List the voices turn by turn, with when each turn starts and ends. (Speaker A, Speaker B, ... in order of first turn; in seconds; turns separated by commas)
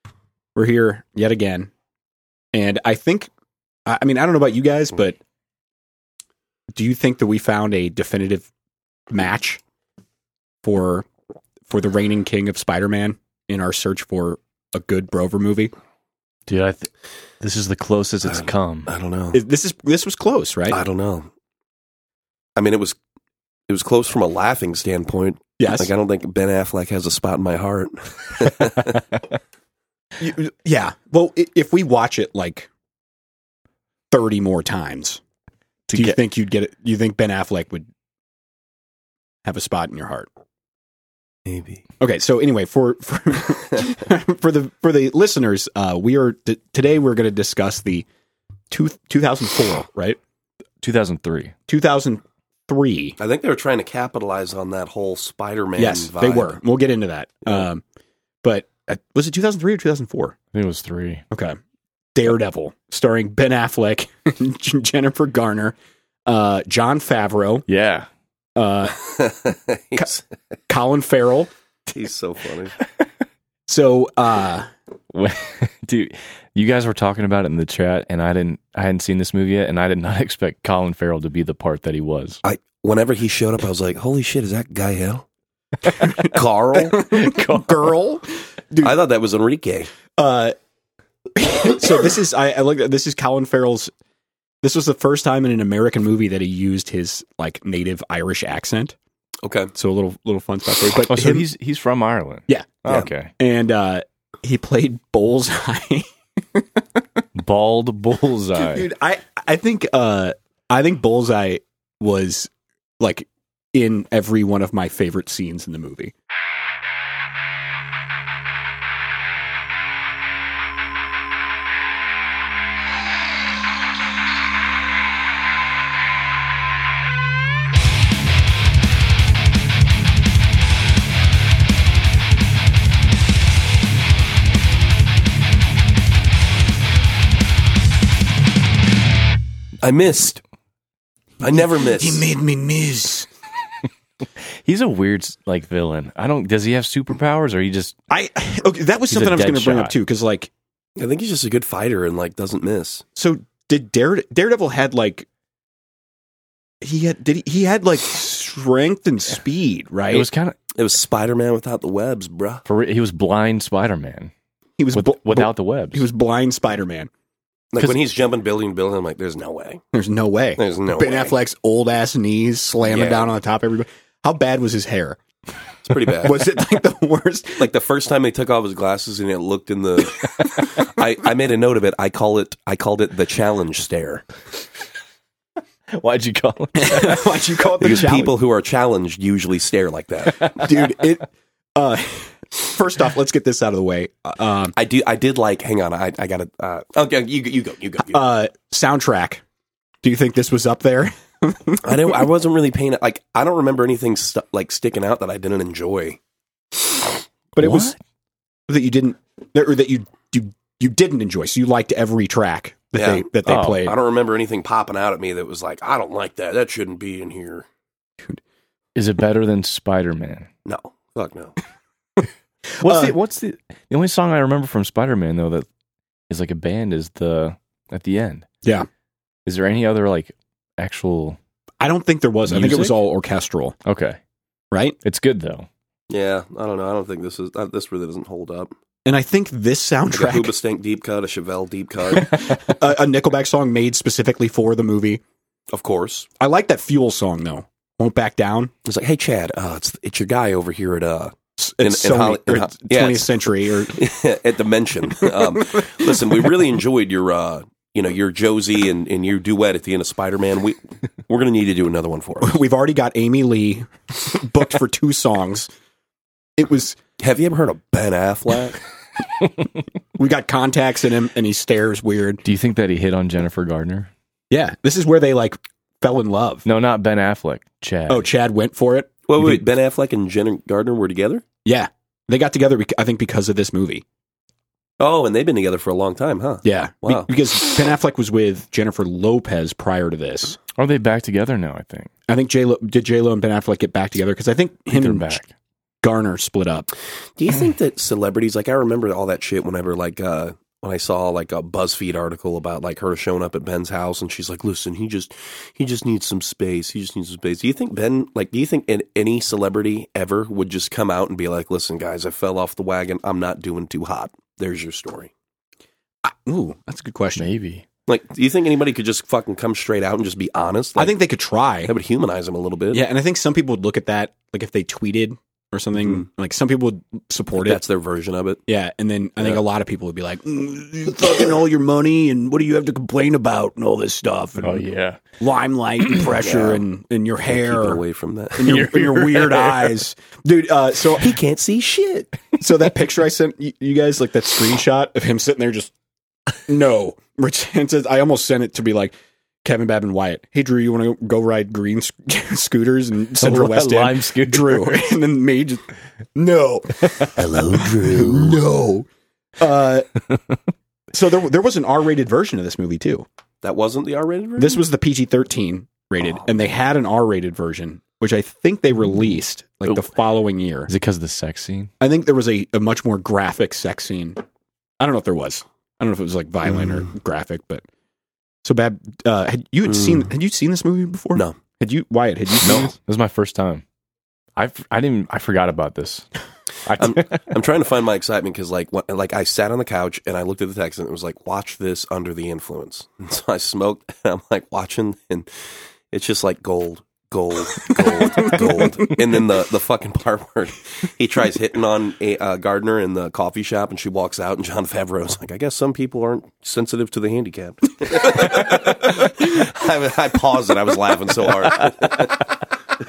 Speaker A: 0.5-1.7, Speaker A: 2.5-3.3, Speaker A: 3.9-5.2, Speaker A: 6.7-8.5, Speaker A: 9.1-9.6, Speaker A: 10.6-11.1, Speaker A: 11.7-15.7, Speaker B: 16.5-18.9, Speaker C: 18.2-19.4, Speaker A: 19.3-20.8, Speaker C: 20.7-21.3, Speaker C: 22.6-23.0, Speaker C: 23.7-29.0, Speaker A: 25.6-25.9, Speaker A: 30.2-32.7, Speaker A: 34.1-35.2, Speaker B: 35.9-36.1, Speaker A: 35.9-37.9, Speaker A: 39.4-40.3, Speaker C: 41.5-41.8, Speaker A: 42.0-48.1, Speaker A: 48.7-50.2, Speaker B: 50.8-51.5, Speaker A: 51.7-53.2, Speaker C: 53.2-56.6, Speaker A: 55.8-57.8, Speaker A: 58.4-60.4, Speaker B: 60.5-61.2, Speaker A: 61.3-61.6, Speaker A: 62.1-67.7, Speaker B: 67.7-68.1, Speaker A: 68.5-69.0, Speaker C: 69.1-70.2, Speaker A: 70.7-71.5, Speaker C: 71.9-72.7, Speaker A: 73.7-74.7, Speaker B: 75.1-82.4, Speaker C: 82.4-85.2, Speaker C: 86.1-87.0, Speaker A: 86.8-89.0, Speaker B: 87.0-87.9, Speaker C: 88.8-89.9, Speaker A: 90.2-90.5, Speaker A: 91.3-93.9, Speaker A: 94.6-98.9, Speaker C: 99.4-99.7, Speaker A: 99.7-101.5, Speaker B: 101.0-103.3, Speaker A: 102.5-107.0, Speaker B: 107.3-108.9, Speaker A: 108.5-116.1, Speaker C: 139.8-140.4, Speaker C: 141.4-142.3, Speaker A: 141.4-143.3, Speaker B: 144.6-147.9, Speaker A: 148.1-150.5, Speaker B: 149.1-149.9, Speaker C: 151.0-153.0, Speaker A: 153.2-155.3, Speaker A: 156.8-160.3, Speaker B: 160.1-160.6, Speaker C: 160.7-162.6, Speaker B: 162.7-164.3, Speaker A: 164.8-167.1, Speaker B: 164.9-166.0, Speaker C: 167.7-169.8, Speaker A: 169.9-175.2, Speaker C: 170.6-171.3, Speaker C: 172.8-173.3, Speaker C: 175.8-176.5, Speaker A: 176.2-177.7, Speaker C: 177.6-184.2, Speaker B: 185.9-187.3, Speaker A: 186.8-188.3, Speaker C: 187.8-190.5, Speaker A: 190.5-194.7, Speaker C: 194.7-198.2, Speaker A: 198.1-199.4, Speaker A: 200.0-202.2, Speaker C: 201.8-206.2, Speaker A: 207.6-207.9, Speaker B: 207.6-207.9, Speaker A: 208.7-213.9, Speaker C: 212.9-217.7, Speaker B: 213.4-213.8, Speaker B: 218.9-220.5, Speaker C: 220.6-221.6, Speaker A: 222.8-223.1, Speaker B: 222.8-225.7, Speaker B: 226.3-228.5, Speaker B: 229.4-231.4, Speaker A: 231.8-233.7, Speaker B: 232.5-233.0, Speaker B: 233.8-234.2, Speaker B: 235.0-235.7, Speaker C: 236.1-238.7, Speaker A: 239.1-240.5, Speaker C: 240.1-242.5, Speaker A: 242.2-245.2, Speaker C: 245.7-246.3, Speaker A: 246.4-248.7, Speaker C: 248.8-262.6, Speaker A: 251.6-254.0, Speaker A: 255.2-256.4, Speaker A: 262.4-265.7, Speaker A: 266.6-267.0, Speaker C: 267.2-268.8, Speaker A: 270.1-272.4, Speaker B: 272.4-274.1, Speaker A: 274.5-276.6, Speaker B: 276.6-278.3, Speaker A: 278.1-279.6, Speaker C: 279.3-281.4, Speaker A: 281.6-284.0, Speaker C: 285.0-287.3, Speaker A: 286.6-290.6, Speaker B: 290.7-292.1, Speaker A: 292.3-295.4, Speaker B: 294.9-295.5, Speaker A: 296.0-296.9, Speaker C: 297.4-315.3, Speaker A: 316.2-317.5, Speaker B: 317.4-317.8, Speaker C: 318.1-321.2, Speaker A: 320.9-321.9, Speaker C: 321.8-323.0, Speaker A: 322.9-327.8, Speaker C: 327.5-328.6, Speaker A: 328.7-334.8, Speaker B: 334.6-335.2, Speaker A: 335.4-338.0, Speaker C: 336.3-336.8, Speaker C: 337.5-338.8, Speaker A: 338.6-341.3, Speaker B: 338.6-340.0, Speaker C: 341.2-342.3, Speaker A: 342.6-345.9, Speaker A: 346.7-359.1, Speaker B: 353.4-355.1, Speaker B: 357.2-358.3, Speaker C: 357.4-358.5, Speaker A: 359.6-360.1, Speaker A: 361.1-363.2, Speaker C: 363.6-364.8, Speaker A: 364.6-370.9, Speaker B: 370.9-371.9, Speaker A: 372.0-374.4, Speaker A: 375.0-377.8, Speaker A: 378.6-382.9, Speaker B: 382.6-383.8, Speaker B: 384.6-386.3, Speaker B: 386.9-387.4, Speaker C: 387.0-395.5, Speaker C: 396.1-412.4, Speaker A: 398.2-398.6